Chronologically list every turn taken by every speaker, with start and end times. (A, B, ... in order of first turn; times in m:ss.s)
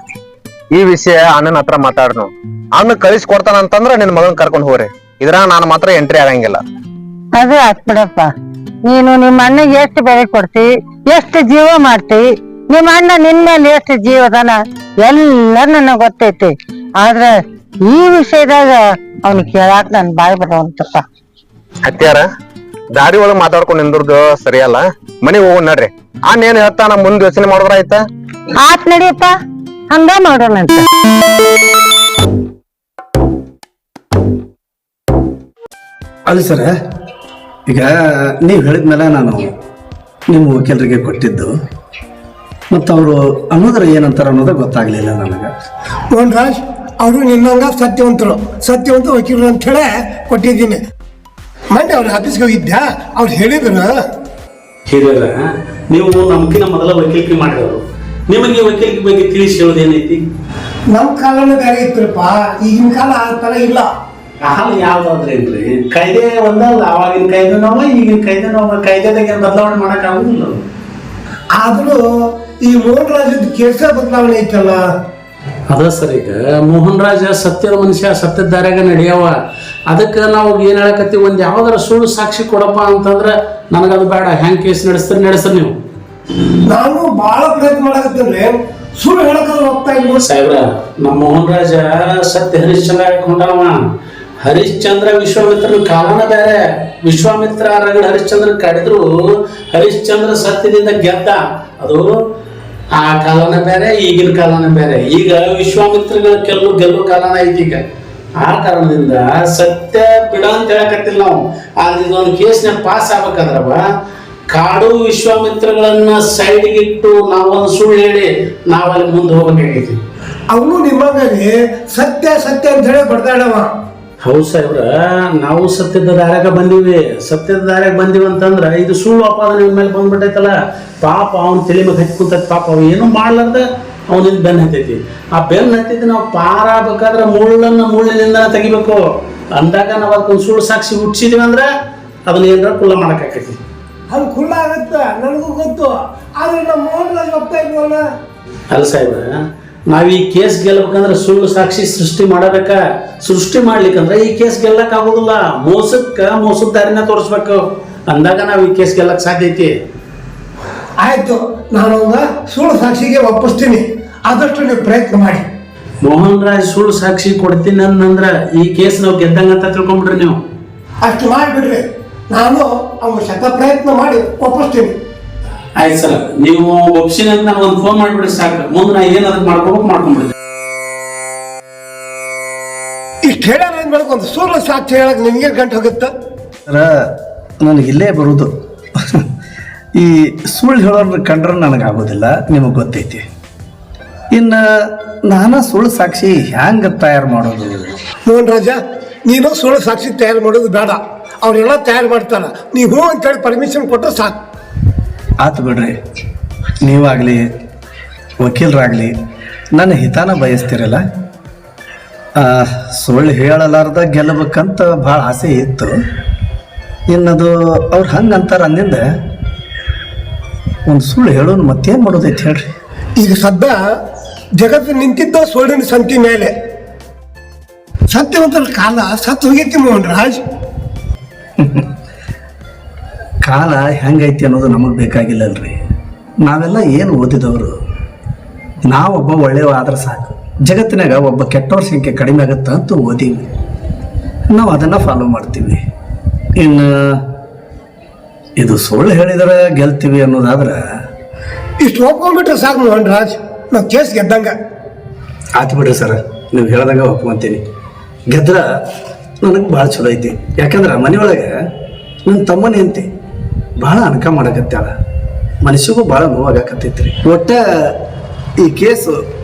0:00.7-0:06.6 A
0:07.4-0:08.3 B
0:08.8-0:17.3 B
0:17.8-0:21.0 B
0:21.8-0:22.3 A
0:22.9-0:28.0 A
0:28.6-0:29.3 B
0:29.9-0:30.8 B
0:36.3-0:36.7 C
0:37.7-0:39.5 C
0:40.3-0:41.5 C
0:42.7-0:45.5 C
0:46.1-0:50.8 D
0:51.7-0:54.0 D
0:54.9-1:00.2 E
1:00.9-1:03.9 D
1:04.4-1:10.6 E
1:11.5-1:12.0 D
1:12.6-1:14.8 D
1:15.7-1:19.4 E
1:19.9-1:25.7 E
1:26.7-1:30.2 D
1:30.2-1:33.8 E
1:34.4-1:39.0 E
1:39.7-1:42.1 E
1:42.9-1:47.8 E
1:48.4-1:53.8 E
1:54.5-2:00.0 E
2:00.5-2:03.7 D
2:04.2-2:19.0 E
2:19.5-2:21.7 E
2:22.3-2:23.6 E
2:24.1-2:28.0 D
2:28.7-2:29.4 E
2:29.9-2:39.7 E
2:41.0-2:45.5 D
2:46.0-2:50.4 E
2:51.0-2:55.0 D
2:55.8-3:00.3 E
3:03.2-3:06.1 D
3:07.6-3:08.5 C
3:10.0-3:13.2 C
3:14.3-3:14.6 C
3:15.3-3:18.0 C
3:18.3-3:24.4 D
3:25.4-3:25.9 C
3:26.8-3:27.5 C
3:28.4-3:29.1 C
3:29.7-3:31.0 C
3:32.4-3:35.9 C
3:37.1-3:39.0 C
3:40.9-3:42.7 C
3:43.2-3:43.8 D
3:44.6-3:46.5 D
3:48.1-3:50.4 D
3:51.6-3:51.8 C
3:53.4-3:55.8 C
3:56.4-3:57.8 C
3:58.9-4:03.5 C
4:04.5-4:05.8 C
4:06.6-4:07.2 C
4:08.6-4:10.8 C
4:11.8-4:14.6 D
4:15.6-4:17.6 C
4:18.3-4:18.6 C
4:19.4-4:21.6 C
4:22.3-4:23.1 C
4:23.8-4:24.9 C
4:25.6-4:27.9 C
4:28.6-4:29.2 C